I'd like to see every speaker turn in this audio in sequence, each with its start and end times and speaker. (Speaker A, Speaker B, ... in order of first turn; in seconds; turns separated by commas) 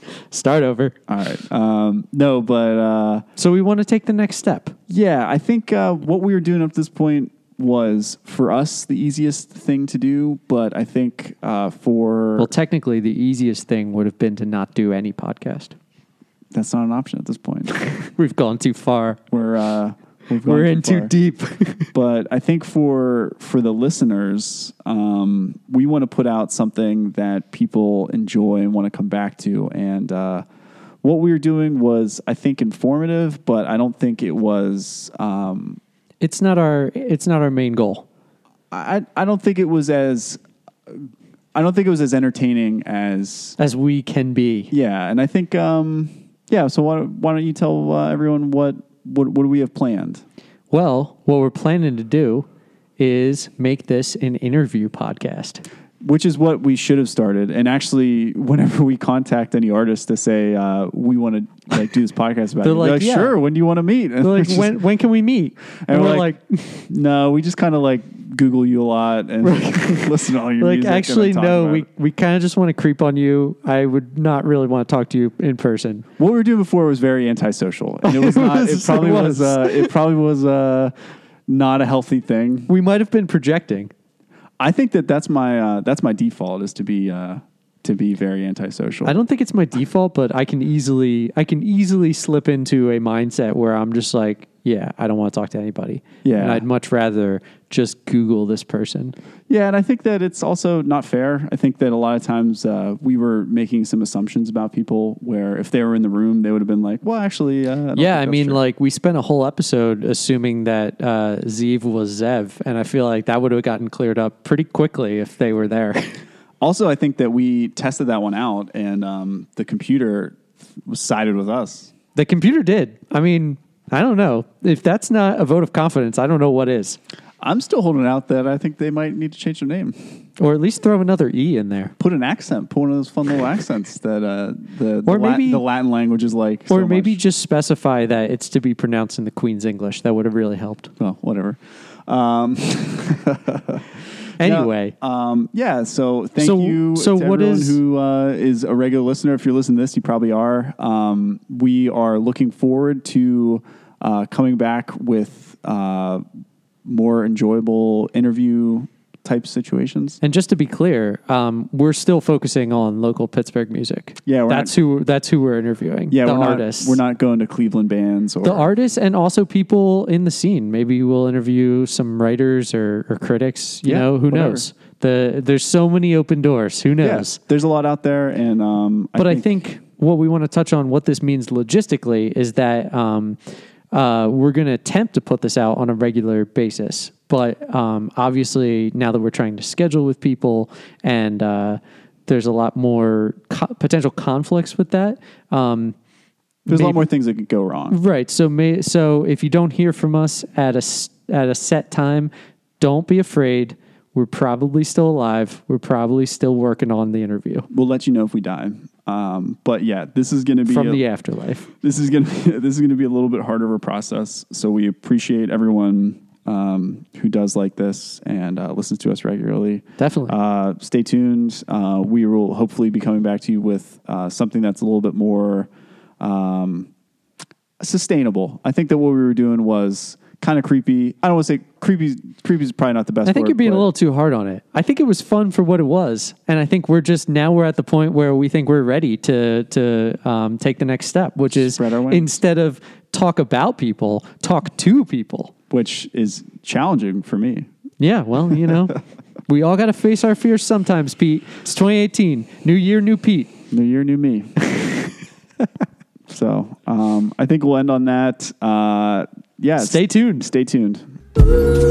Speaker A: 0.3-1.0, Speaker B: 1.1-3.2, Speaker A: 3.4-4.8, Speaker B: 4.9-12.5, Speaker A: 12.4-15.8, Speaker B: 16.5-17.9, Speaker A: 17.9-19.2, Speaker B: 19.3-21.1, Speaker A: 20.4-21.9, Speaker B: 21.9-30.4, Speaker B: 31.0-35.8, Speaker A: 36.2-38.0, Speaker B: 38.7-43.6, Speaker A: 43.6-44.7, Speaker B: 44.7-50.2, Speaker A: 50.7-52.5, Speaker A: 53.0-55.6, Speaker B: 56.0-64.8, Speaker A: 62.6-63.4, Speaker A: 64.2-66.9, Speaker B: 65.9-66.3, Speaker B: 66.9-71.9, Speaker A: 69.4-76.1, Speaker B: 76.2-80.9, Speaker A: 78.0-79.9, Speaker B: 81.5-82.7, Speaker A: 82.7-83.9, Speaker B: 84.6-89.2, Speaker A: 89.0-99.2, Speaker B: 96.2-96.7, Speaker B: 99.5-108.6, Speaker A: 108.0-116.2, Speaker B: 116.6-121.9, Speaker A: 122.2-127.0, Speaker B: 127.4-130.0, Speaker A: 130.4-131.9, Speaker B: 132.0-137.2, Speaker A: 135.1-135.6, Speaker A: 136.7-140.9, Speaker B: 141.0-143.8, Speaker A: 144.4-144.9, Speaker B: 144.4-156.2, Speaker A: 146.4-147.8, Speaker B: 156.8-160.2, Speaker A: 160.2-167.0, Speaker B: 164.3-164.7, Speaker B: 166.1-168.7, Speaker A: 168.4-177.4, Speaker B: 173.8-174.7, Speaker B: 177.0-179.6, Speaker A: 179.2-183.4, Speaker A: 183.9-196.0, Speaker A: 196.7-197.0, Speaker B: 196.7-198.0, Speaker A: 197.9-207.7, Speaker B: 207.7-211.0, Speaker A: 210.7-211.7, Speaker B: 211.8-225.7, Speaker A: 220.0-220.4, Speaker B: 226.2-226.9, Speaker B: 227.8-233.9, Speaker A: 233.2-245.5, Speaker B: 241.5-242.3, Speaker B: 245.7-247.7, Speaker A: 248.0-253.5, Speaker B: 253.7-254.6, Speaker A: 254.7-255.0, Speaker B: 256.3-261.1, Speaker A: 259.8-260.5